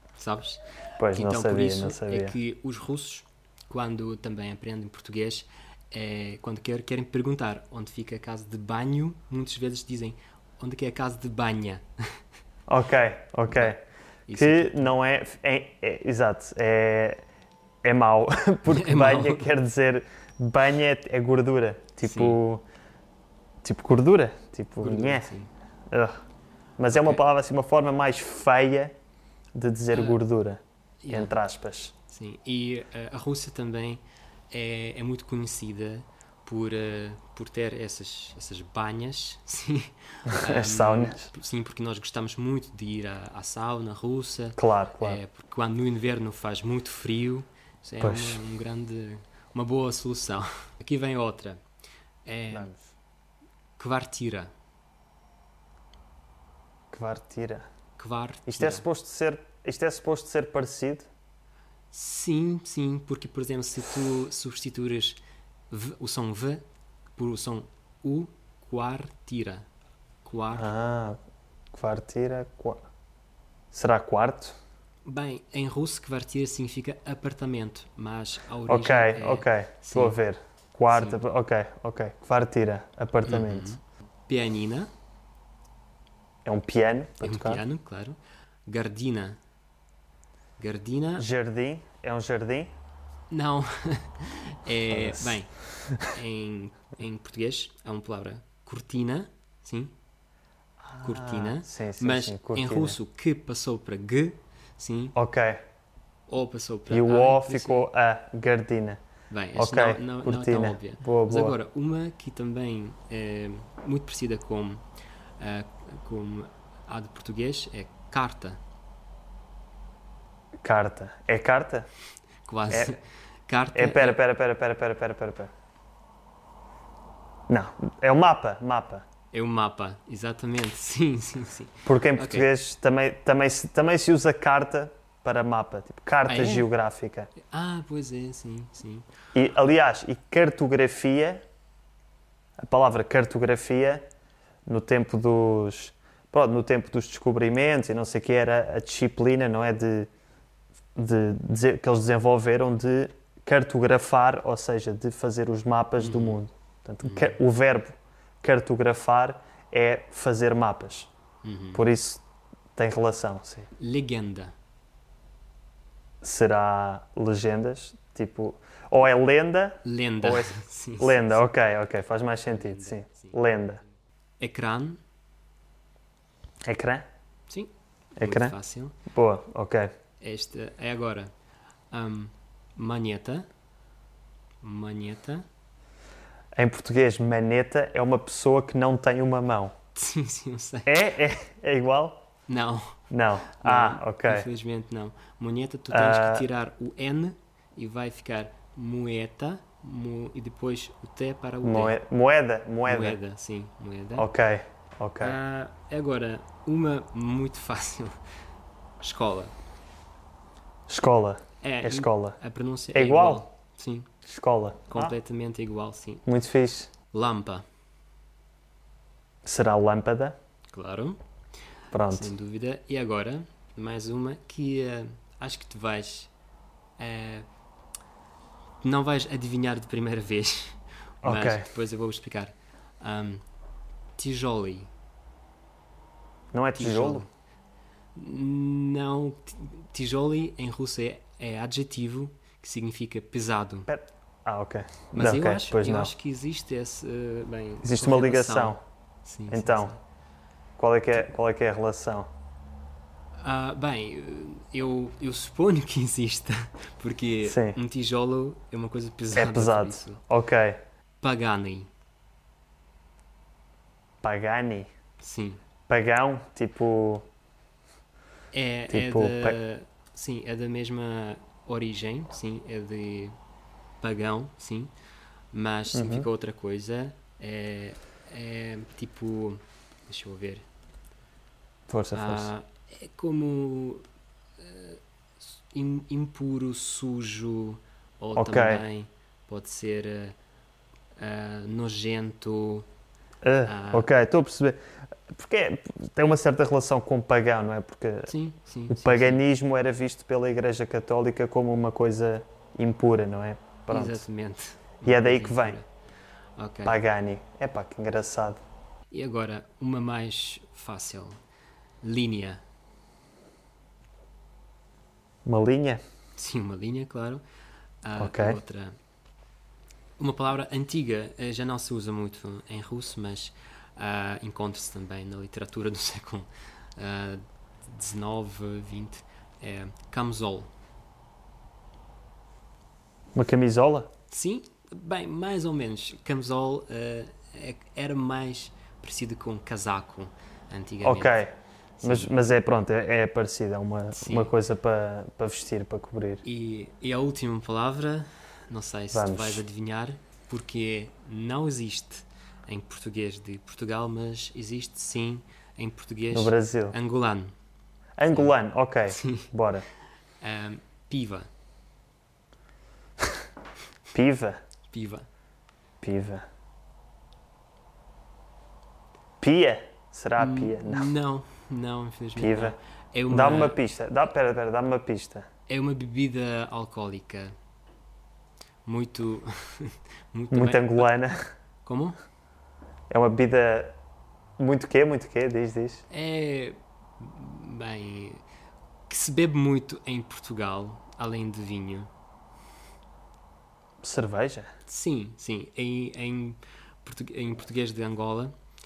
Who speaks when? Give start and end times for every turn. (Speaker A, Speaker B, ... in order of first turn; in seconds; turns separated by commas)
Speaker A: 0.1-12.2, Speaker B: 1.0-2.4, Speaker B: 12.7-13.8, Speaker A: 13.5-14.9, Speaker B: 14.3-17.2, Speaker B: 17.8-22.6, Speaker A: 18.7-19.5, Speaker A: 22.0-22.4, Speaker B: 23.6-25.3, Speaker A: 24.8-25.5, Speaker B: 25.9-26.2, Speaker B: 26.8-28.9, Speaker A: 26.9-27.2, Speaker B: 29.5-31.9, Speaker A: 29.9-30.2, Speaker A: 31.0-31.3, Speaker A: 32.1-51.6, Speaker B: 40.3-41.3, Speaker B: 44.6-45.2, Speaker B: 48.0-48.4, Speaker A: 52.2-52.7, Speaker B: 52.5-52.9, Speaker A: 53.8-54.5, Speaker B: 56.9-57.6, Speaker A: 58.0-58.8, Speaker B: 58.5-61.1, Speaker A: 61.9-66.6, Speaker A: 67.2-69.7, Speaker A: 70.2-70.7, Speaker B: 70.5-71.2, Speaker B: 71.7-72.8, Speaker B: 73.7-74.5, Speaker A: 75.0-80.2, Speaker B: 78.7-83.7, Speaker A: 80.9-81.2, Speaker A: 83.2-84.9, Speaker B: 86.4-87.6, Speaker A: 87.2-89.4, Speaker A: 90.6-91.3, Speaker B: 91.2-92.7, Speaker A: 93.3-99.9, Speaker B: 94.9-95.4, Speaker B: 100.8-103.0, Speaker A: 101.0-105.2, Speaker B: 105.1-105.6, Speaker A: 106.3-107.9, Speaker B: 106.9-109.0, Speaker A: 109.3-114.8, Speaker B: 109.5-111.5, Speaker A: 115.4-118.6, Speaker B: 120.6-121.9, Speaker A: 122.5-124.2, Speaker B: 122.7-123.0, Speaker B: 123.7-125.5, Speaker B: 127.5-129.0, Speaker A: 129.3-132.5, Speaker B: 131.8-137.3, Speaker A: 136.3-136.7, Speaker A: 137.4-139.1, Speaker B: 139.3-141.4, Speaker B: 142.6-144.1, Speaker B: 144.7-150.1, Speaker B: 150.9-161.1, Speaker A: 156.0-156.4, Speaker A: 157.0-157.4, Speaker A: 161.4-161.8, Speaker B: 161.7-162.2, Speaker B: 162.8-163.7, Speaker A: 163.8-164.5, Speaker B: 166.2-173.8, Speaker A: 169.8-171.5, Speaker A: 172.5-173.3, Speaker A: 174.4-175.0, Speaker B: 176.6-177.1, Speaker A: 177.5-179.0, Speaker B: 178.2-178.5, Speaker B: 179.1-179.9, Speaker A: 180.2-181.3, Speaker A: 181.9-183.5, Speaker A: 184.6-185.4, Speaker B: 186.6-189.7, Speaker A: 189.9-191.0, Speaker B: 190.8-192.2, Speaker A: 192.5-193.0, Speaker B: 193.1-194.4, Speaker A: 193.5-202.0, Speaker B: 195.9-196.4, Speaker B: 201.6-203.2, Speaker A: 202.8-204.3, Speaker B: 204.2-205.3, Speaker A: 205.2-208.2, Speaker A: 209.0-209.5, Speaker B: 210.9-212.4, Speaker A: 211.6-214.1, Speaker B: 212.9-213.5, Speaker B: 214.2-215.1, Speaker A: 214.9-216.2, Speaker B: 216.2-216.9, Speaker A: 217.1-217.6, Speaker B: 219.4-220.3, Speaker A: 220.7-221.2, Speaker B: 221.9-222.3, Speaker A: 222.1-226.3, Speaker A: 227.0-227.5, Speaker A: 228.8-233.4, Speaker B: 231.2-231.7, Speaker A: 234.2-234.9, Speaker B: 236.5-237.3, Speaker A: 236.8-237.3, Speaker A: 238.1-243.9, Speaker B: 243.9-246.1, Speaker A: 245.1-250.0, Speaker B: 247.8-248.8, Speaker B: 249.5-249.9, Speaker B: 250.8-252.3, Speaker A: 253.4-260.2, Speaker B: 257.4-257.8, Speaker B: 259.3-260.8, Speaker A: 261.2-261.9, Speaker B: 264.2-264.9, Speaker A: 265.2-265.6, Speaker B: 265.9-267.3, Speaker A: 268.5-273.4, Speaker B: 268.9-269.6, Speaker A: 274.0-274.9, Speaker A: 275.5-280.6, Speaker B: 275.9-276.3, Speaker B: 281.9-282.5, Speaker A: 282.1-284.0, Speaker A: 284.6-285.0, Speaker A: 285.7-290.4, Speaker B: 288.3-288.8, Speaker A: 291.2-292.9, Speaker B: 293.4-298.3, Speaker A: 293.6-294.1, Speaker A: 298.3-299.4, Speaker B: 298.9-304.2, Speaker A: 303.9-305.9, Speaker B: 305.0-305.8, Speaker A: 306.6-307.0, Speaker B: 306.8-308.6, Speaker A: 309.1-311.4, Speaker A: 312.0-312.6, Speaker B: 315.4-316.0, Speaker A: 316.4-317.4, Speaker A: 318.0-318.9, Speaker B: 318.2-318.6, Speaker A: 320.2-330.7, Speaker B: 333.3-334.1, Speaker A: 334.3-341.4, Speaker B: 341.0-346.4, Speaker A: 342.0-342.5, Speaker A: 344.1-344.5, Speaker A: 346.4-357.5, Speaker B: 349.1-349.6, Speaker B: 356.3-356.9, Speaker B: 358.2-359.9, Speaker A: 359.1-359.5, Speaker A: 360.4-361.5, Speaker B: 364.1-364.6, Speaker A: 364.9-365.2, Speaker B: 366.0-366.4, Speaker B: 369.4-371.1, Speaker A: 370.4-373.8, Speaker B: 372.4-372.8, Speaker B: 373.3-375.4, Speaker A: 375.7-377.5, Speaker A: 378.8-381.3, Speaker B: 380.5-381.5, Speaker A: 381.8-382.1, Speaker B: 383.1-383.9, Speaker B: 384.6-386.0, Speaker A: 386.1-388.4, Speaker A: 389.1-392.1, Speaker B: 394.0-394.7, Speaker A: 394.9-398.5